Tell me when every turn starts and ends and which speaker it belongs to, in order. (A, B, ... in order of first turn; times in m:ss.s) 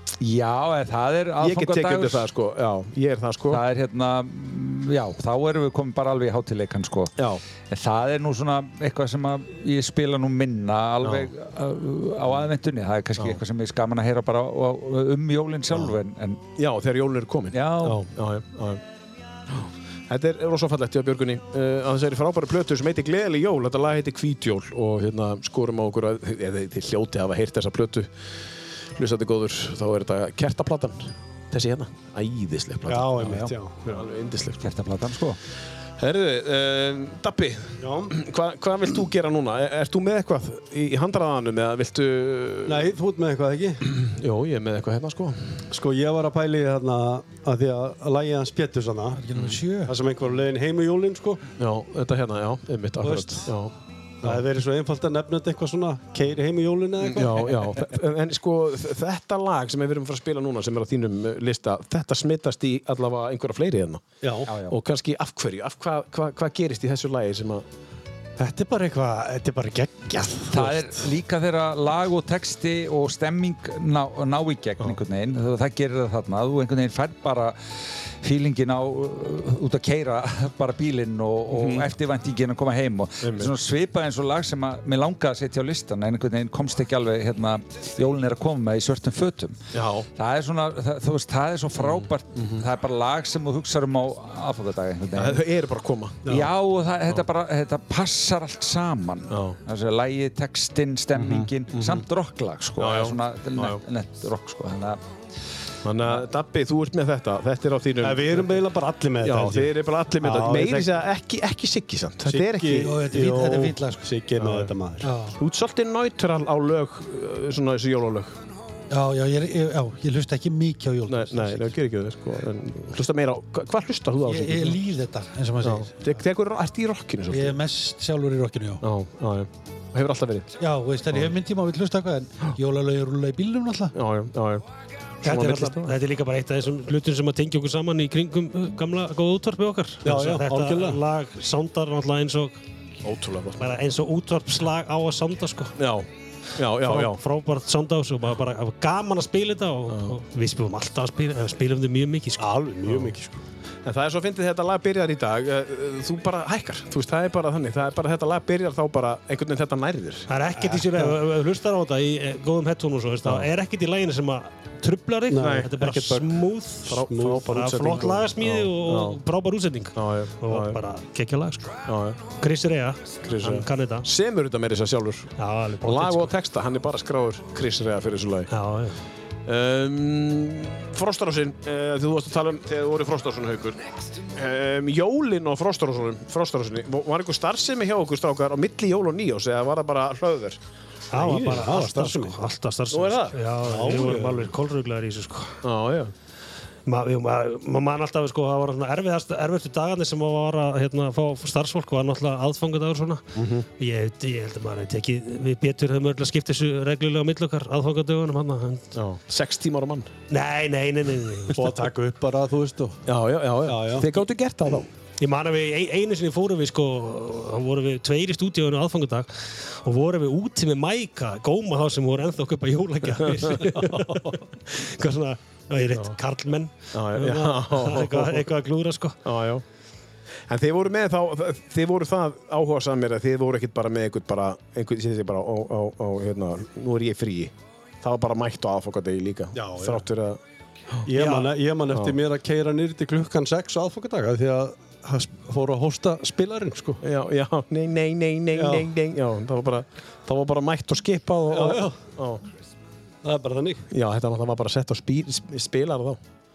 0:00.2-0:02.3 A
0:01.4-0:03.6 B
0:03.5-0:07.2 A
0:07.7-0:16.4 A
0:11.0-0:11.3 B
0:16.6-0:18.8 B
0:17.5-0:18.0 A
0:19.5-0:28.1 B
0:28.9-0:34.7 B
0:32.9-0:34.0 C
0:33.2-0:33.5 A
0:34.6-0:35.4 A
0:36.0-0:43.0 B
0:37.8-0:38.2 C
0:42.7-0:43.9 C
0:43.9-0:45.7 B
0:45.7-0:49.2 C
0:49.2-0:50.0 D
0:49.3-0:49.6 B
0:49.9-0:51.4 C
0:51.6-0:54.4 B
0:53.0-0:53.5 C
0:54.2-0:57.8 C
0:57.0-1:07.7 B
1:04.2-1:04.5 C
1:04.5-1:04.8 A
1:08.4-1:11.1 C
1:10.5-1:29.6 A
1:21.5-1:21.9 B
1:23.2-1:23.5 B
1:29.7-1:30.1 B
1:30.2-1:35.4 A
1:31.8-1:32.7 B
1:35.1-1:36.4 B
1:36.3-1:45.0 A
1:39.3-1:39.6 B
1:41.1-1:42.1 B
1:42.8-1:43.8 B
1:45.8-1:48.6 B
1:48.0-1:50.9 C
1:49.2-1:53.0 B
1:52.2-1:55.1 C
1:52.8-1:54.1 D
1:54.4-1:54.7 B
1:55.0-1:55.4 D
1:55.4-1:58.4 B
1:58.9-2:01.7 D
2:01.1-2:04.8 B
2:04.2-2:06.2 D
2:05.6-2:07.6 B
2:07.3-2:08.8 D
2:08.8-2:10.5 B
2:10.6-2:14.0 D
2:13.9-2:14.6 B
2:15.2-2:16.0 B
2:15.2-2:22.6 E
2:20.0-2:21.0 C
2:23.0-2:23.8 B
2:23.6-2:25.8 E
2:25.8-2:27.2 B
2:26.8-2:32.5 E
2:29.9-2:30.2 B
2:32.4-2:33.4 C
2:32.9-2:33.2 B
2:33.8-2:40.3 B
2:40.3-2:51.9 E
2:40.7-2:41.2 C
2:45.3-2:47.6 C
2:45.4-2:45.7 B
2:46.9-2:49.2 B
2:50.0-2:50.8 B
2:51.9-2:52.3 B
2:52.4-2:54.1 E
2:53.2-2:58.5 B
2:55.4-2:56.3 E
2:58.5-2:59.0 E
2:59.4-3:10.6 B
3:11.1-3:15.6 E
3:11.1-3:12.4 C
3:11.2-3:11.6 B
3:12.9-3:13.4 B
3:13.6-3:14.5 C
3:15.6-3:16.1 B
3:16.9-3:23.3 E
3:23.4-3:23.7 B
3:23.8-3:28.9 E
3:28.9-3:30.1 B
3:30.3-3:31.9 E
3:31.6-3:33.0 C
3:33.0-3:34.9 B
3:33.6-3:34.1 C
3:35.2-3:49.2 E
3:45.9-3:46.2 B
3:46.9-3:48.5 B
3:49.2-3:49.6 B
3:50.5-4:01.1 B
3:59.6-4:00.0 C
4:01.0-4:07.0 C
4:01.1-4:01.6 E
4:01.9-4:02.2 B
4:07.0-4:12.4 B
4:08.5-4:08.9 C
4:11.5-4:12.0 C
4:13.2-4:13.9 C
4:13.9-4:16.2 B